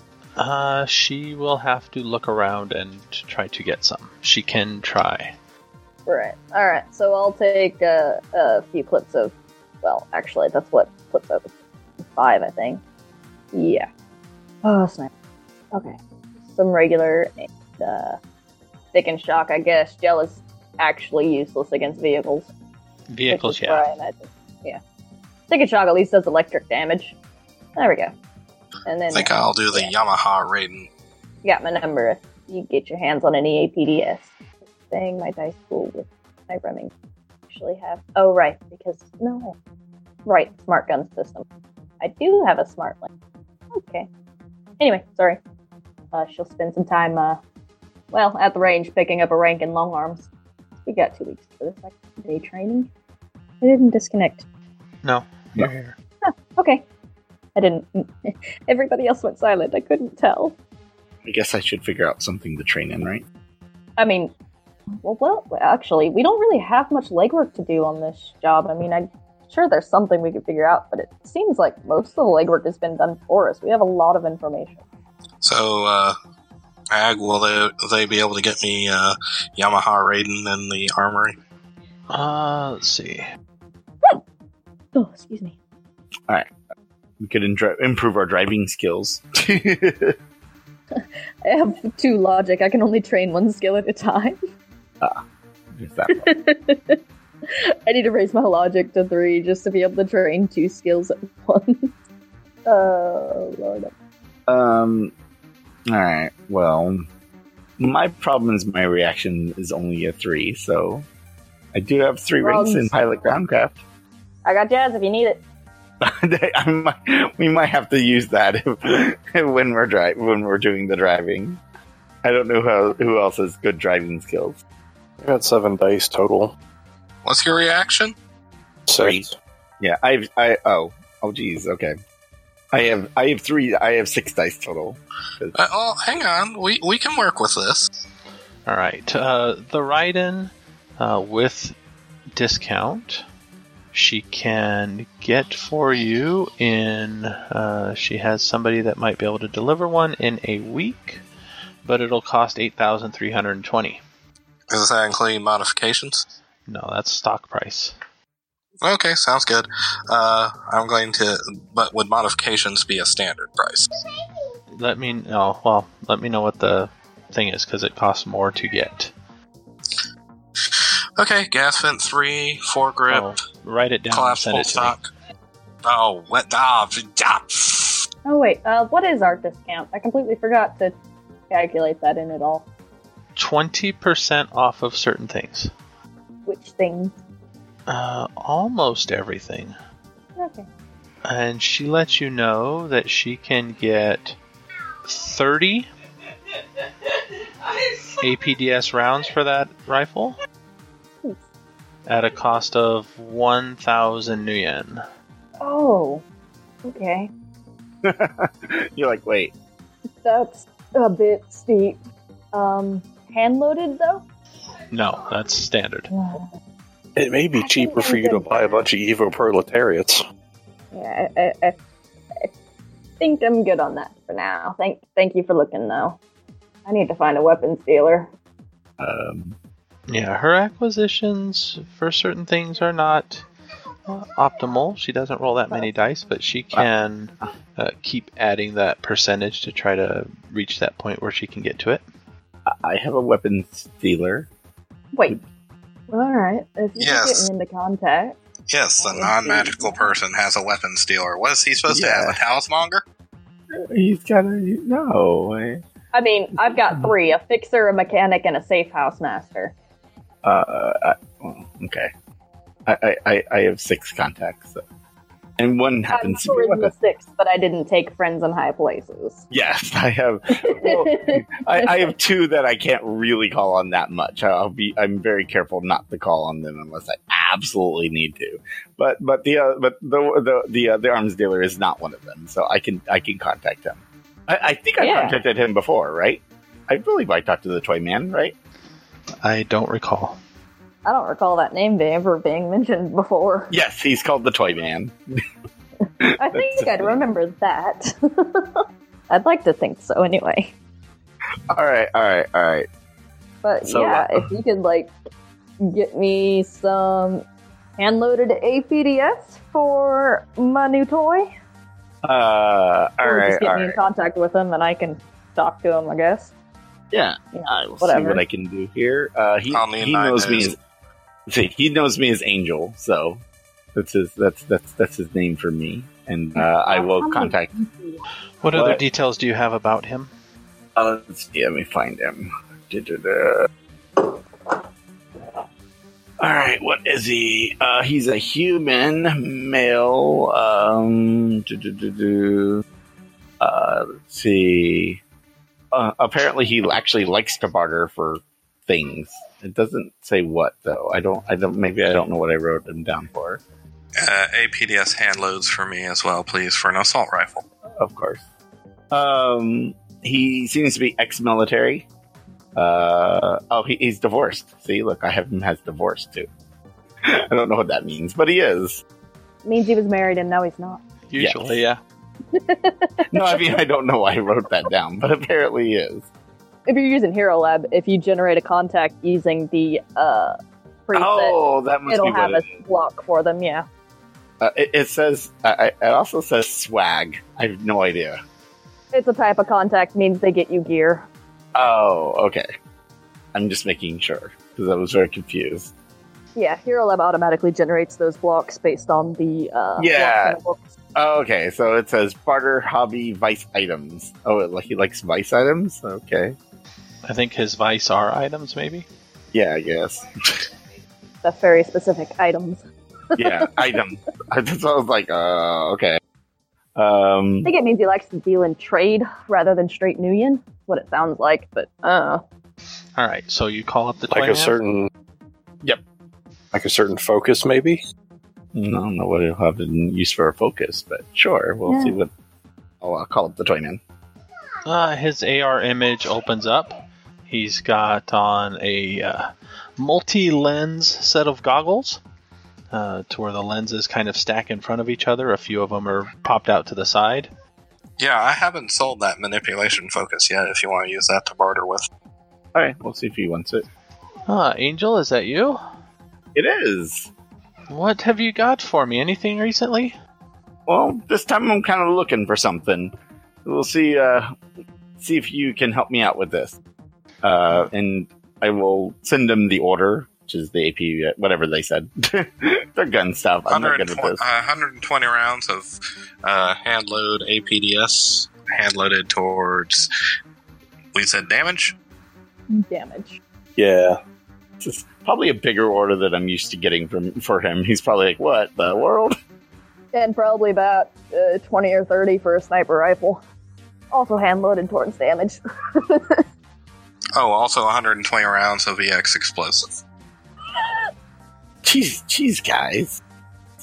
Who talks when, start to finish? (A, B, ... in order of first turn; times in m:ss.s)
0:00.4-0:05.3 A
0:06.0-0:11.5 B
0:12.0-0:12.8 B
0:13.5-0:13.9 B
0:14.6-0:15.1 B
0:15.7-0:16.0 B
0:16.5-0:18.2 B
0:18.9-0:22.5 B
0:23.1-0:23.9 A
0:23.3-0:24.8 B
0:25.5-0:27.2 B
0:27.8-0:28.1 B
0:28.8-0:29.9 B
0:29.1-0:30.9 C
0:31.4-0:34.3 B
0:34.9-0:36.9 B
0:37.5-0:39.5 B
0:40.2-0:41.4 B
0:42.0-0:43.1 B
0:43.7-0:44.1 B
0:44.8-0:45.4 B
0:46.1-0:47.4 B
0:48.1-0:50.3 B
0:50.8-0:52.9 B
0:53.6-0:54.4 B
0:55.0-0:55.9 A
0:56.2-0:56.8 B
0:57.5-1:00.5 B
1:01.2-1:03.2 D
1:04.0-1:04.3 B
1:05.0-1:14.8 B
1:15.4-1:16.1 C
1:16.9-1:21.4 C
1:22.1-1:23.2 A
1:24.9-1:25.5 B
1:27.2-1:30.1 D
1:31.0-1:34.4 B
1:35.8-1:36.3 D
1:36.1-1:41.9 B
1:42.6-1:43.9 B
1:44.5-1:45.1 D
1:45.9-1:47.0 D
1:47.8-1:51.0 D
1:51.7-1:53.8 D
1:52.4-1:52.9 B
1:54.4-1:55.4 B
1:56.0-2:01.6 D
2:02.2-2:04.6 D
2:05.2-2:06.5 E
2:07.2-2:08.1 C
2:08.9-2:09.3 E
2:09.0-2:09.3 D
2:09.8-2:12.0 D
2:12.7-2:15.5 D
2:15.5-2:17.8 C
2:18.6-2:21.7 A
2:22.3-2:23.2 A
2:23.9-2:31.2 A
2:31.8-2:34.0 A
2:34.7-2:36.3 C
2:36.7-2:38.0 A
2:38.8-2:43.9 C
2:44.7-2:49.1 A
2:50.7-2:53.3 C
2:53.1-2:54.9 A
2:54.1-2:55.1 C
2:55.8-2:58.0 C
2:58.2-3:00.9 B
3:01.5-3:02.6 B
3:03.4-3:05.7 A
3:06.4-3:07.2 B
3:07.9-3:09.8 A
3:10.4-3:10.7 B
3:11.2-3:14.4 A
3:15.0-3:15.9 A
3:18.2-3:20.4 A
3:22.1-3:25.0 A
3:25.6-3:26.2 B
3:26.8-3:27.3 B
3:28.0-3:29.5 D
3:30.2-3:32.0 B
3:32.5-3:34.2 B
3:34.9-3:36.1 A
3:36.1-3:36.5 B
3:37.2-3:40.2 E
3:37.6-3:38.8 B
3:40.9-3:41.8 B
3:43.2-3:46.2 B
3:46.8-3:48.3 B
3:49.0-3:49.6 D
3:50.1-3:53.4 A
3:54.1-4:02.0 A
4:02.7-4:04.5 D
4:05.1-4:05.4 B
4:06.1-4:08.4 B
4:07.0-4:07.5 C
4:08.7-4:13.0 C
4:09.1-4:10.1 B
4:11.9-4:12.4 D
4:13.7-4:15.8 D
4:16.1-4:19.7 B
4:16.7-4:17.1 D
4:20.4-4:22.1 D
4:22.8-4:24.8 D
4:25.6-4:26.9 D
4:26.1-4:29.4 B
4:29.5-4:48.5 D
4:30.6-4:32.1 B
4:45.0-4:45.4 B
4:49.4-4:50.4 A
4:51.0-4:53.7 B
4:53.7-4:55.1 D
4:56.0-5:00.7 B
4:56.2-4:57.2 D
5:01.7-5:02.9 D
5:03.6-5:05.1 B
5:03.8-5:04.5 D
5:05.8-5:07.4 B
5:08.0-5:11.5 B
5:12.2-5:14.0 D
5:13.2-5:16.5 B
5:17.1-5:20.8 D
5:17.5-5:18.4 B
5:19.7-5:20.7 C
5:21.5-5:23.4 D
5:23.9-5:27.7 D
5:26.6-5:28.2 B
5:28.6-5:30.3 A
5:28.7-5:29.0 D
5:31.0-5:34.3 D
5:36.4-5:42.8 D
5:43.6-5:45.2 D
5:45.9-5:53.6 D
5:54.2-5:57.6 C
5:58.0-5:58.4 D
5:59.1-6:02.1 D
6:02.8-6:06.5 D
6:07.2-6:09.0 D
6:09.6-6:11.0 B
6:11.3-6:12.0 A
6:11.4-6:11.8 D
6:12.5-6:13.7 B
6:13.3-6:16.2 D
6:16.9-6:21.5 B
6:21.1-6:22.6 D
6:22.1-6:23.8 B
6:24.6-6:28.4 D
6:29.1-6:31.2 B
6:31.7-6:32.6 D
6:33.5-6:35.9 D
6:36.5-6:40.9 B
6:40.0-6:40.6 D
6:41.1-6:46.6 D
6:47.2-6:49.1 A
6:49.5-6:50.7 D
6:51.4-6:52.8 B
6:53.3-6:53.7 B
6:53.3-6:56.2 D
6:57.0-6:57.7 D
6:57.6-7:02.4 B
7:03.2-7:04.8 A
7:04.3-7:05.1 E
7:06.7-7:08.0 E
7:08.7-7:12.3 D
7:11.9-7:12.1 B
7:13.0-7:14.0 D
7:14.8-7:22.2 A
7:22.9-7:27.5 A
7:28.2-7:32.1 C
7:32.7-7:33.8 D
7:34.5-7:35.8 A
7:36.5-7:37.3 D
7:37.9-7:40.2 A
7:40.9-7:43.1 D
7:43.6-7:44.5 D
7:45.2-7:46.8 D
7:47.4-7:54.4 D
7:53.7-7:55.9 C
7:56.4-8:00.1 C
8:01.1-8:02.0 C
8:02.7-8:03.4 B
8:03.8-8:04.2 E
8:04.8-8:09.3 D
8:10.1-8:13.4 B
8:14.1-8:16.4 B
8:17.4-8:20.0 C
8:21.8-8:23.2 D